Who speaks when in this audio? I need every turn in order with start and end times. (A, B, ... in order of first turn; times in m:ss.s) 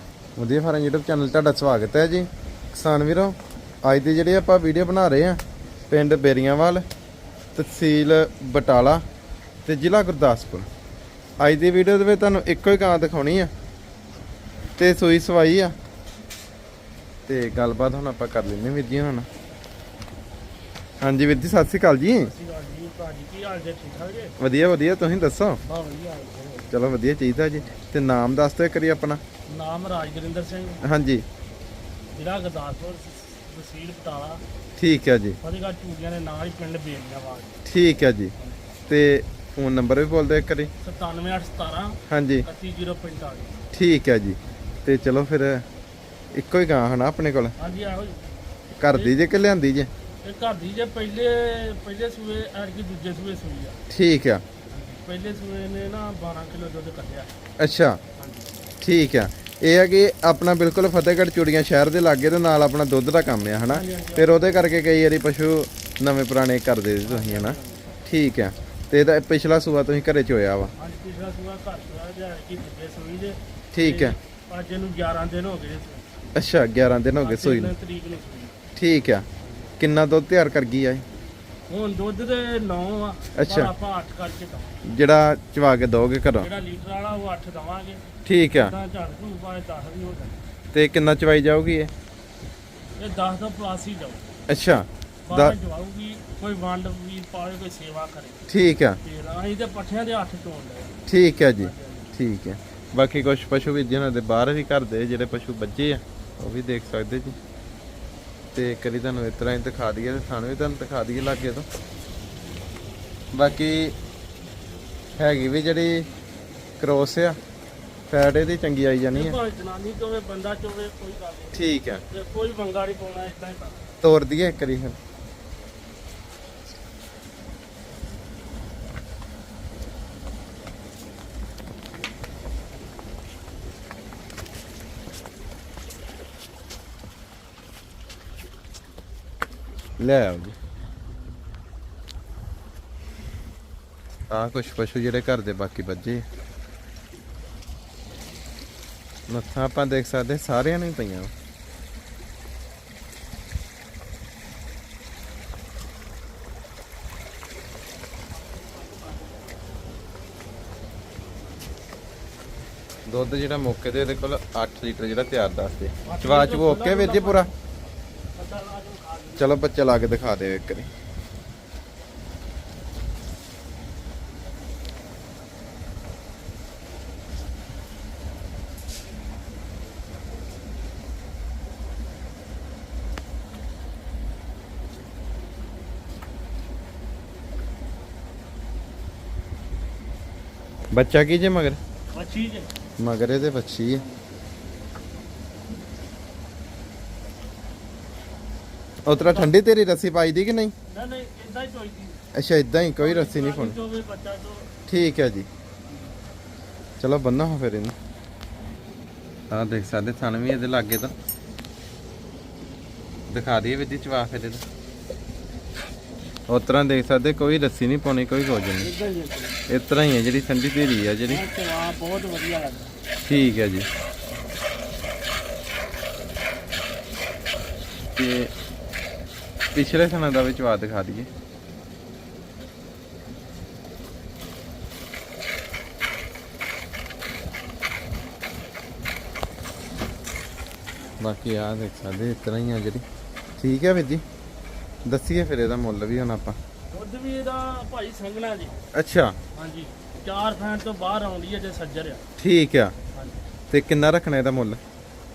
0:00.4-0:06.8 A
0:07.6-0:09.0 A
0:09.6-0:10.7 A
0:11.4-0:13.5 A
0:14.8-0:15.8 A
0:17.3-0:19.3 A
0:21.0-0:22.3 A
0:22.2-0:24.3 B
0:24.4-0:25.6 A
0:25.6-0:26.7 B
0:26.7-0:29.2 A
0:29.5-0:30.8 B
0:30.8-0:31.2 A
0:32.1-0:34.4 B
0:34.8-0:35.4 A
0:35.4-0:37.6 B
0:37.6-0:38.3 A
0:38.9-0:40.7 A
0:40.8-0:43.6 B
0:42.1-0:42.4 A
0:43.7-0:45.6 A
0:46.3-0:47.5 A
0:47.6-0:48.3 B
0:48.8-0:49.9 A
0:48.9-0:49.2 B
0:50.2-0:53.8 B
0:53.9-0:54.4 A
0:54.7-0:57.3 B
0:57.6-0:58.0 A
0:58.2-0:58.5 B
0:58.8-1:10.7 A
1:03.6-1:04.6 B
1:07.0-1:08.0 B
1:10.8-1:16.1 B
1:13.7-1:14.2 A
1:16.3-1:17.7 A
1:17.2-1:18.6 B
1:18.8-1:19.2 A
1:19.4-1:19.7 B
1:19.8-1:21.0 A
1:21.7-1:24.8 B
1:23.3-1:23.7 A
1:24.8-1:26.5 A
1:26.4-1:30.4 B
1:28.2-1:28.7 A
1:30.7-1:31.9 A
1:33.0-1:34.2 B
1:34.5-1:35.5 A
1:35.3-1:38.4 B
1:38.5-1:39.0 A
1:39.0-1:41.0 B
1:41.1-1:47.4 A
1:41.6-1:42.2 B
1:48.5-1:51.6 A
1:53.3-1:53.9 A
1:55.2-1:56.0 A
1:56.8-1:57.4 A
1:58.1-1:59.3 A
1:59.1-2:03.9 B
2:01.5-2:02.0 A
2:04.0-2:04.9 A
2:20.0-2:20.5 A
2:24.3-2:26.2 A
2:29.3-2:31.3 A
2:38.4-2:39.5 B
2:43.1-2:47.5 A
2:46.0-2:47.5 B
2:48.3-2:49.5 B
2:49.4-2:50.9 A
3:10.9-3:11.8 A
3:12.1-3:12.7 B
3:13.0-3:14.0 A
3:19.0-3:20.7 A
3:19.1-3:19.5 B
3:20.9-3:22.2 B
3:22.3-3:23.7 A
3:23.0-3:24.7 B
3:24.9-3:25.5 A
3:27.0-3:27.9 A
3:29.5-3:31.1 A
3:33.3-3:34.6 A
3:36.5-3:38.9 A
3:38.8-3:39.6 B
3:39.7-3:41.4 A
3:41.3-3:42.9 B
3:43.2-3:43.9 A
3:48.2-3:48.5 A
3:49.7-3:51.3 A
4:01.2-4:03.0 A
4:03.6-4:04.2 A
4:05.0-4:06.6 A
4:06.9-4:08.8 B
4:08.9-4:09.4 A
4:09.5-4:12.2 B
4:12.4-4:12.9 A
4:13.1-4:13.4 B
4:13.7-4:14.8 A